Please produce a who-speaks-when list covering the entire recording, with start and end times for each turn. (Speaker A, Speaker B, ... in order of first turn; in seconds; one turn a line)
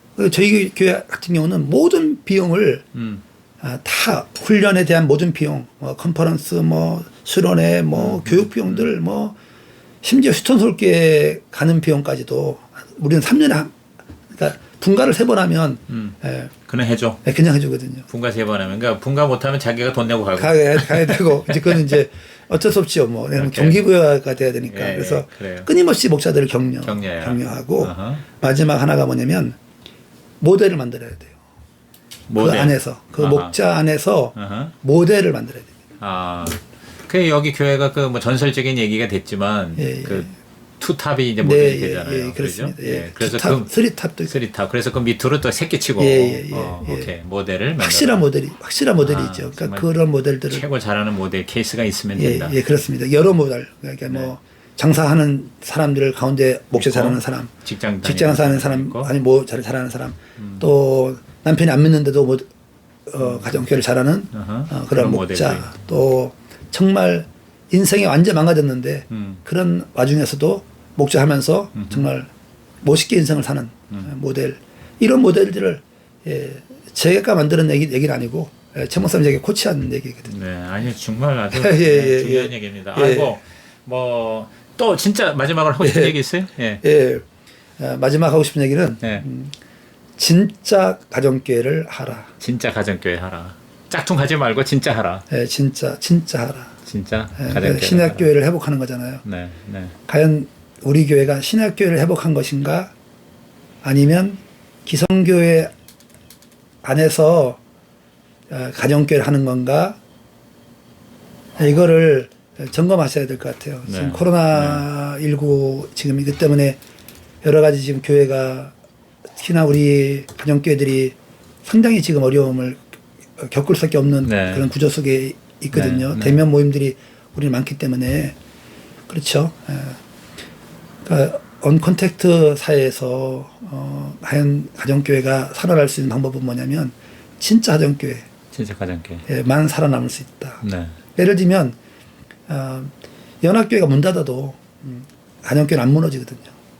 Speaker A: 0.2-2.9
Speaker B: 2.9-3.2
Speaker A: 3.6-9.3
Speaker B: 7.9-8.9
Speaker A: 10.0-13.8
Speaker A: 14.3-16.5
Speaker B: 15.9-17.2
Speaker A: 17.2-18.1
Speaker B: 18.1-22.0
Speaker A: 20.4-29.6
Speaker B: 23.4-23.9
Speaker B: 24.7-25.7
Speaker B: 26.8-28.2
Speaker A: 30.4-31.4
Speaker B: 32.3-33.5
Speaker A: 32.4-35.7
Speaker B: 34.4-34.7
Speaker B: 36.0-43.7
Speaker A: 39.8-40.3
Speaker A: 41.4-44.3
Speaker B: 44.2-48.3
Speaker A: 46.0-47.1
Speaker A: 47.8-50.6
Speaker B: 49.0-49.9
Speaker B: 50.5-52.6
Speaker A: 52.2-57.5
Speaker B: 56.7-59.1
Speaker A: 58.0-62.5
Speaker B: 60.4-60.6
Speaker A: 63.1-72.3
Speaker B: 63.2-63.7
Speaker B: 64.3-65.7
Speaker B: 69.1-69.4
Speaker B: 71.8-72.1
Speaker A: 72.8-80.3
Speaker B: 80.3-86.8
Speaker A: 81.5-83.3
Speaker A: 85.8-86.2
Speaker A: 86.8-87.2
Speaker A: 87.8-89.5
Speaker A: 90.2-92.3
Speaker B: 92.4-95.2
Speaker A: 95.3-96.7
Speaker B: 96.8-98.3
Speaker A: 97.4-99.2
Speaker B: 99.2-100.0
Speaker A: 100.1-102.9
Speaker A: 103.8-105.7
Speaker A: 106.8-107.6
Speaker A: 108.5-110.0
Speaker A: 111.6-116.8
Speaker B: 113.9-114.9
Speaker A: 117.4-118.7
Speaker A: 119.4-128.4
Speaker B: 124.2-124.7
Speaker B: 125.7-126.4
Speaker A: 129.1-130.0
Speaker A: 131.1-138.3
Speaker B: 138.5-139.2
Speaker A: 139.3-140.6
Speaker B: 140.6-141.0
Speaker A: 141.2-141.8
Speaker A: 142.5-142.9
Speaker A: 143.4-146.5